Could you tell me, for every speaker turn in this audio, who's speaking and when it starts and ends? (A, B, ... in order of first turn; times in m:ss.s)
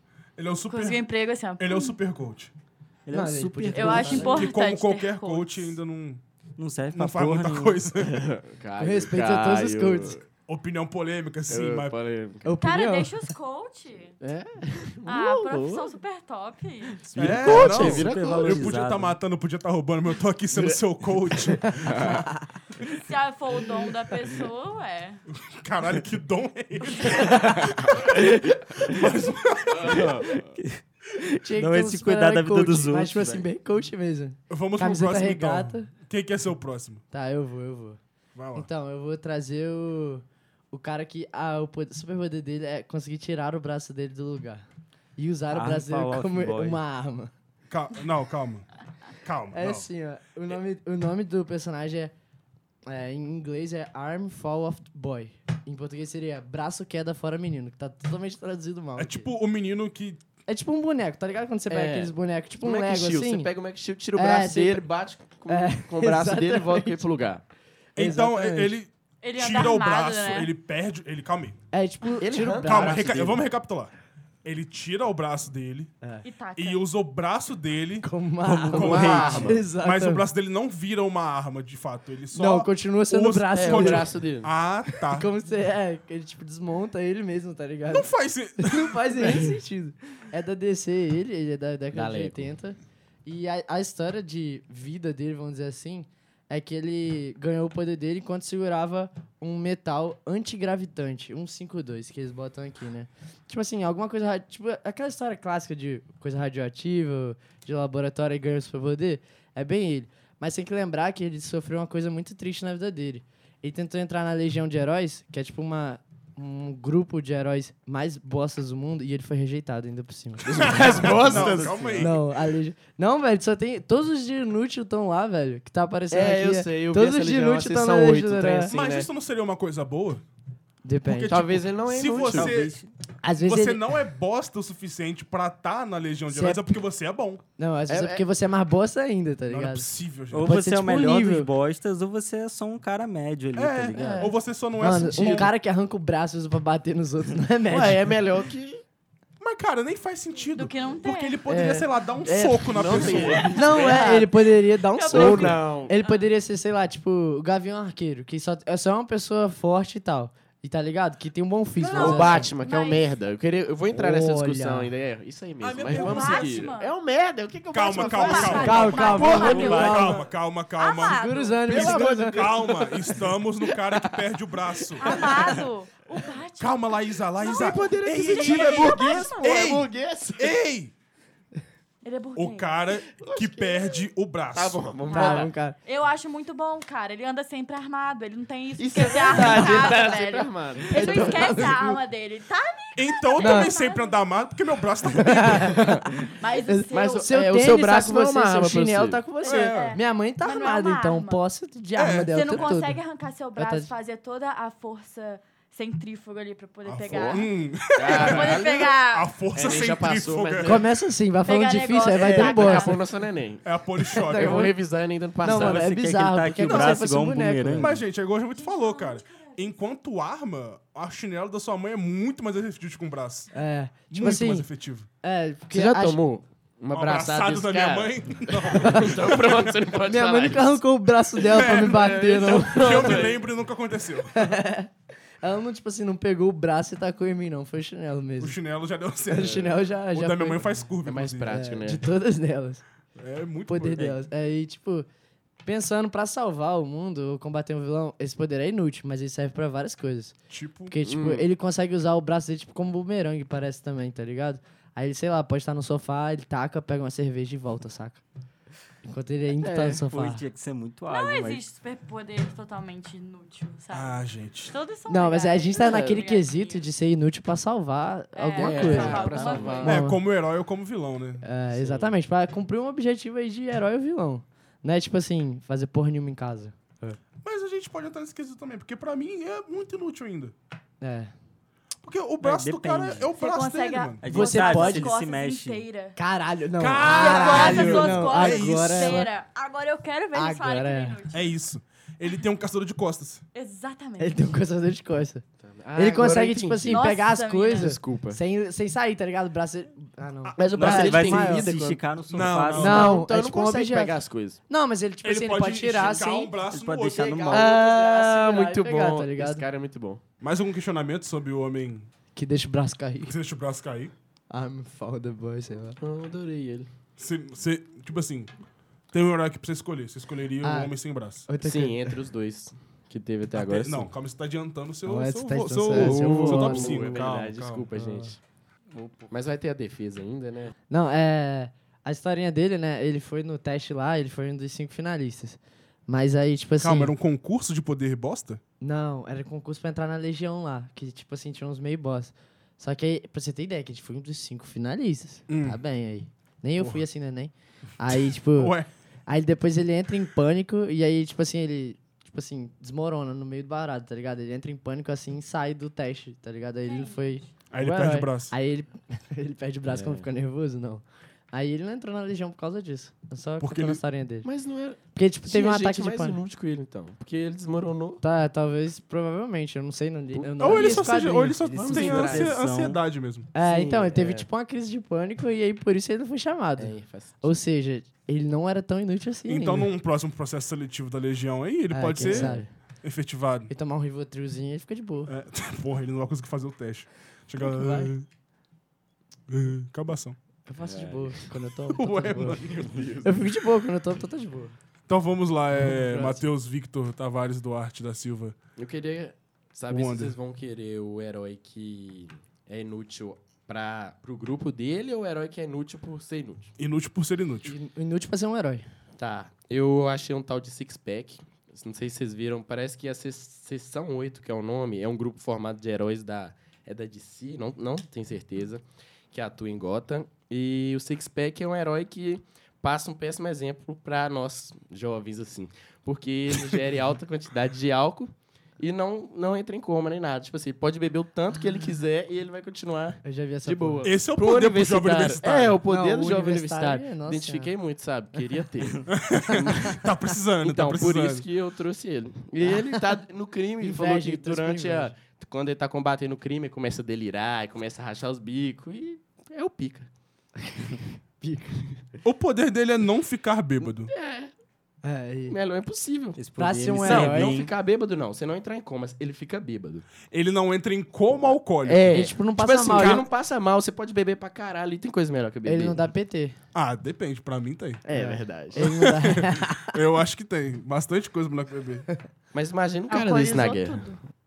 0:00.4-0:01.0 A
0:00.7-0:01.9 B
0:01.6-0:02.5 A
0:03.0-0:04.4 C
0:03.1-0:04.4 D
0:03.7-0:05.7 B
0:04.2-0:06.2 A
0:06.6-0:07.8 C
0:06.9-0:08.3 A
0:08.0-0:10.2 E
0:08.8-0:10.2 D
0:10.5-0:12.0 A
0:11.5-0:12.5 E
0:12.4-0:13.1 D
0:12.6-0:14.2 B
0:14.2-0:15.9 E
0:15.0-0:17.0 B
0:17.0-0:18.8 E
0:17.1-0:19.2 C
0:17.2-0:22.1 A
0:17.4-0:18.0 D
0:20.5-0:22.2 E
0:21.6-0:22.4 D
0:22.8-0:25.2 B
0:25.3-0:30.3 A
0:27.3-0:29.0 E
0:29.7-0:30.5 E
0:30.5-0:30.8 C
0:31.2-0:35.9 D
0:31.5-0:33.4 C
0:34.5-0:37.0 A
0:37.1-0:38.0 D
0:38.3-0:38.7 A
0:38.5-0:44.6 D
0:45.2-0:47.3 D
0:45.5-0:46.8 C
0:47.7-0:48.7 A
0:49.2-0:49.8 A
0:49.5-0:52.1 D
0:52.8-0:59.3 D
0:59.0-1:00.2 A
1:00.5-1:03.5 D
1:01.7-1:07.4 E
1:04.1-1:04.9 D
1:05.5-1:07.0 D
1:08.0-1:11.6 A
1:08.0-1:08.8 D
1:09.2-1:10.5 B
1:11.7-1:13.3 D
1:12.2-1:13.4 E
1:12.6-1:13.9 A
1:14.4-1:15.9 A
1:16.2-1:16.8 B
1:16.6-1:25.3 A
1:18.0-1:20.2 D
1:18.7-1:19.6 E
1:22.3-1:24.1 D
1:23.5-1:24.5 E
1:25.1-2:01.1 D
1:27.9-1:29.3 A
1:31.9-1:32.5 E
2:00.4-2:01.9 E
2:00.5-2:02.2 A
2:00.9-2:02.1 C
2:01.9-2:08.7 D
2:06.1-2:09.1 E
2:08.7-2:10.2 A
2:10.8-2:11.6 D
2:11.0-2:12.7 A
2:11.2-2:12.7 E
2:12.3-2:12.9 C
2:13.2-2:14.0 D
2:13.4-2:17.4 A
2:16.3-2:16.7 D
2:17.6-2:19.9 D
2:17.9-2:18.2 E
2:19.5-2:20.5 A
2:20.3-2:24.3 C
2:20.4-2:21.5 D
2:23.5-2:25.5 A
2:23.9-2:24.3 E
2:24.8-2:28.1 D
2:27.7-2:28.8 E
2:29.4-2:33.7 A
2:30.5-2:31.4 B
2:31.5-2:32.3 D
2:32.3-2:34.3 E
2:33.2-2:34.1 B
2:33.5-2:42.5 D
2:34.9-2:36.2 B
2:35.1-2:35.9 E
2:41.9-2:42.3 A
2:41.9-2:43.1 B
2:41.9-2:49.5 E
2:43.9-2:44.9 D
2:45.6-2:46.7 A
2:45.8-2:46.9 B
2:47.7-2:55.5 A
2:48.0-2:50.1 B
2:48.4-2:50.2 D
2:49.2-2:50.1 C
2:50.8-2:51.6 B
2:51.0-2:52.5 D
2:51.7-2:54.2 E
2:54.8-2:55.6 E
2:55.0-2:59.7 B
2:56.6-3:00.9 A
2:57.4-3:00.6 E
3:02.0-3:02.7 B
3:02.4-3:04.9 A
3:03.1-3:04.0 E
3:04.5-3:05.5 E
3:05.1-3:14.2 B
3:05.1-3:05.8 D
3:08.8-3:11.8 E
3:09.4-3:10.0 D
3:10.9-3:12.0 D
3:13.0-3:15.8 A
3:13.4-3:13.7 D
3:15.1-3:15.9 D
3:15.5-3:16.1 E
3:16.3-3:17.3 B
3:16.6-3:23.0 D
3:16.9-3:19.2 E
3:19.4-3:20.0 A
3:19.4-3:21.4 B
3:22.0-3:22.6 A
3:22.2-3:29.3 B
3:23.6-3:23.9 D
3:26.8-3:30.8 A
3:27.0-3:29.0 E
3:29.5-3:30.8 E
3:30.6-3:33.0 D
3:31.4-3:33.0 B
3:32.1-3:35.9 E
3:33.6-3:34.7 A
3:34.0-3:34.8 D
3:35.4-3:38.0 D
3:35.5-3:38.0 C
3:36.6-3:37.0 A
3:37.8-3:43.5 A
3:38.5-3:39.6 B
3:43.5-3:44.7 D
3:44.1-3:45.1 A
3:45.2-3:46.2 D
3:45.7-3:50.8 E
3:46.9-3:49.8 A
3:50.0-3:53.3 D
3:51.4-3:53.4 E
3:51.4-3:54.5 A
3:54.3-3:54.9 D
3:55.4-3:58.6 D
3:58.4-4:01.6 A
3:59.3-4:00.8 D
3:59.4-3:59.7 E
4:01.0-4:02.0 E
4:01.5-4:02.8 D
4:03.2-4:04.2 A
4:03.7-4:05.0 D
4:05.6-4:10.3 D
4:10.5-4:10.9 A
4:10.9-4:18.2 D
4:11.0-4:11.4 E
4:19.0-4:20.4 D
4:19.6-4:20.0 E
4:20.1-4:21.6 C
4:21.1-4:24.2 B
4:23.9-4:24.7 A
4:24.7-4:26.8 B
4:25.1-4:30.2 D
4:25.8-4:26.2 E
4:28.4-4:29.9 B
4:28.6-4:30.0 E
4:28.9-4:29.8 C
4:29.8-4:31.4 A
4:31.4-4:37.2 D
4:31.7-4:32.1 E
4:37.4-4:40.5 A
4:41.0-4:41.3 D
4:42.0-4:44.2 A
4:42.4-4:43.3 C
4:43.4-4:46.2 B
4:44.2-4:45.8 C
4:44.3-4:45.1 D
4:46.2-4:49.3 D
4:46.8-4:49.2 A
4:47.0-4:51.5 B
4:50.3-4:51.2 D
4:51.3-4:53.4 A
4:53.5-4:54.5 B
4:54.2-4:55.4 D
4:55.6-4:57.1 E
4:55.9-5:01.7 D
4:56.9-4:57.9 B
4:57.7-4:58.4 E
5:00.4-5:00.9 A
5:00.6-5:02.0 E
5:00.8-5:03.2 C
5:02.3-5:03.2 A
5:02.8-5:04.6 E
5:02.8-5:06.5 D
5:05.2-5:07.5 A
5:06.7-5:07.8 C
5:07.4-5:10.2 E
5:07.4-5:09.6 D
5:10.4-5:12.1 A
5:12.3-5:13.3 D
5:13.3-5:14.1 A
5:14.5-5:16.0 D
5:16.0-5:16.9 E
5:17.2-5:18.5 A
5:19.1-5:21.4 A
5:20.6-5:20.9 D
5:21.5-5:22.2 D
5:21.6-5:24.1 E
5:23.5-5:27.9 A
5:25.0-5:27.1 D
5:25.9-5:28.4 E
5:28.0-5:28.3 D
5:29.2-5:30.7 E
5:30.9-5:37.1 D
5:36.8-5:38.6 A
5:38.8-5:48.8 D
5:45.5-5:45.8 A
5:46.8-5:47.0 A
5:48.5-5:48.9 A
5:49.3-6:04.5 D
5:56.8-5:57.4 B
5:57.7-5:58.5 A
5:59.9-6:00.2 E
6:03.6-6:04.0 A
6:04.4-6:08.2 E
6:05.1-6:06.4 D
6:08.2-6:12.3 D
6:10.3-6:11.1 E
6:10.6-6:13.5 A
6:11.7-6:12.6 E
6:11.9-6:13.0 C
6:13.5-6:19.9 D
6:13.6-6:14.5 E
6:16.8-6:17.4 E
6:19.5-6:23.7 A
6:21.9-6:22.7 D
6:22.2-6:22.7 E
6:23.7-6:25.3 D
6:25.3-6:28.3 A
6:27.6-6:28.1 D
6:29.5-6:30.4 A
6:30.6-6:32.6 D
6:30.8-6:31.5 E
6:31.9-6:32.7 A
6:32.3-6:33.5 E
6:33.2-6:34.8 D
6:35.1-6:38.6 A
6:35.8-6:36.4 D
6:38.8-6:46.7 E
6:39.9-6:40.3 A
6:46.8-6:47.7 A
6:47.6-6:48.8 D
6:49.2-7:20.0 E
7:13.2-7:14.1 D
7:14.0-7:15.8 A
7:15.9-7:17.7 D
7:19.1-7:21.4 A
7:20.6-7:30.1 E
7:23.8-7:25.1 D
7:30.7-7:31.9 D
7:32.2-7:34.1 A
7:34.0-7:34.5 E
7:35.0-7:35.6 D
7:35.5-7:36.4 E
7:36.4-7:37.7 C
7:36.5-7:37.6 D
7:37.0-7:40.1 E
7:40.3-7:42.3 A
7:41.8-7:46.0 E
7:42.1-7:43.2 D
7:42.9-7:43.2 A
7:45.6-7:46.6 D
7:46.7-7:48.0 A
7:48.0-7:48.9 E
7:48.1-7:49.9 D
7:48.8-7:52.0 A
7:52.5-7:54.0 E
7:53.1-7:54.2 B